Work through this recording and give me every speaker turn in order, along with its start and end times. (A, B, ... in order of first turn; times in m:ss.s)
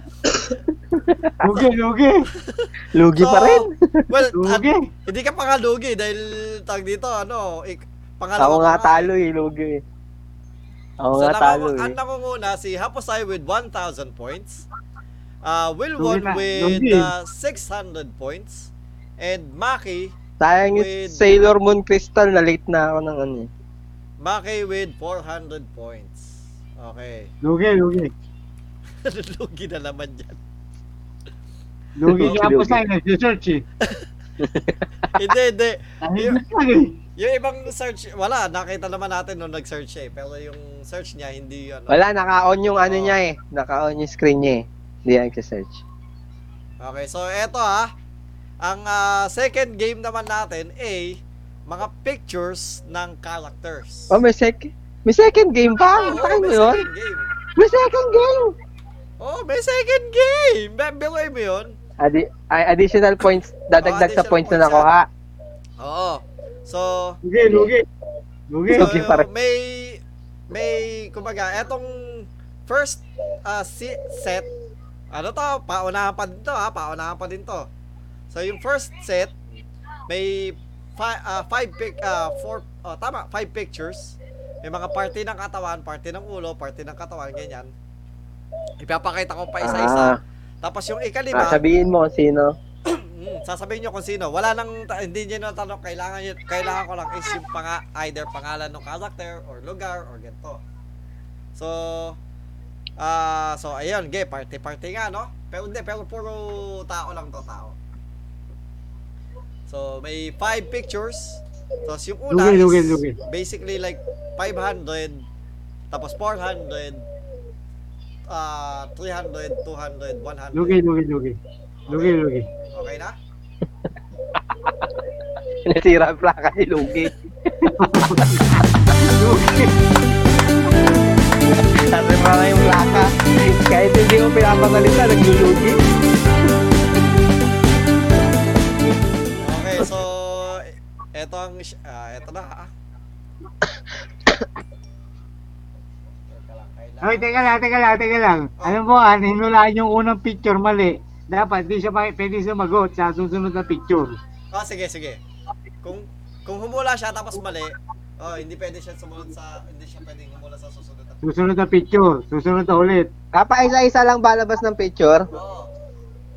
0:00.4-0:01.7 A
0:01.4-0:02.3 B
0:02.4-0:09.1 C
0:02.9-0:04.0 A
0:04.3-0:04.9 B
0:08.4-0:09.8 A
0:11.0-0:12.0 A
0:11.1-0:14.6 C
0:15.4-0:20.1 C
0:16.0-0:17.1 B
0:20.4-0:23.5 A
0:20.7-0:21.2 C
0:24.2-0:27.3 C
0:27.4-0:28.1 B
0:29.0-0:30.4 C
0:32.0-0:33.6 B
0:32.1-0:32.8 A
0:34.4-0:34.8 A
0:35.1-0:36.4 C
0:36.0-0:36.9 B
0:37.2-0:42.0 C
0:41.9-0:45.8 A
0:42.8-0:43.2 C
0:46.8-0:47.9 C
0:48.6-0:54.2 C
0:54.1-0:56.9 A
0:55.9-0:57.3 C
0:57.6-0:58.6 A
0:59.2-1:01.8 C
1:02.0-1:05.1 A
1:03.8-1:04.9 C
1:05.8-1:07.2 C
1:07.2-1:07.9 B
1:07.4-1:07.7 A
1:08.5-1:08.9 B
1:08.7-1:09.3 A
1:08.7-1:14.5 C
1:15.1-1:17.7 C
1:18.3-1:19.3 C
1:20.1-1:27.7 C
1:28.8-1:31.6 C
1:29.6-1:30.2 A
1:31.3-1:32.6 A
1:32.9-1:40.6 C
1:41.6-1:42.2 C
1:43.0-1:47.8 C
1:49.7-1:55.2 C
1:52.3-1:53.2 B
1:55.9-1:57.0 C
1:58.3-2:00.8 C
2:00.5-2:01.4 B
2:01.9-2:02.2 C
2:01.9-2:02.5 B
2:02.7-2:03.2 C
2:05.6-2:08.4 A
2:07.6-2:09.8 B
2:11.6-2:15.8 A
2:19.4-2:22.7 C
2:26.3-2:27.5 C
2:27.0-2:34.2 B
2:34.5-2:35.2 C
2:35.8-2:41.2 C
2:41.2-2:43.1 B
2:43.3-2:45.3 A
2:45.3-2:45.7 C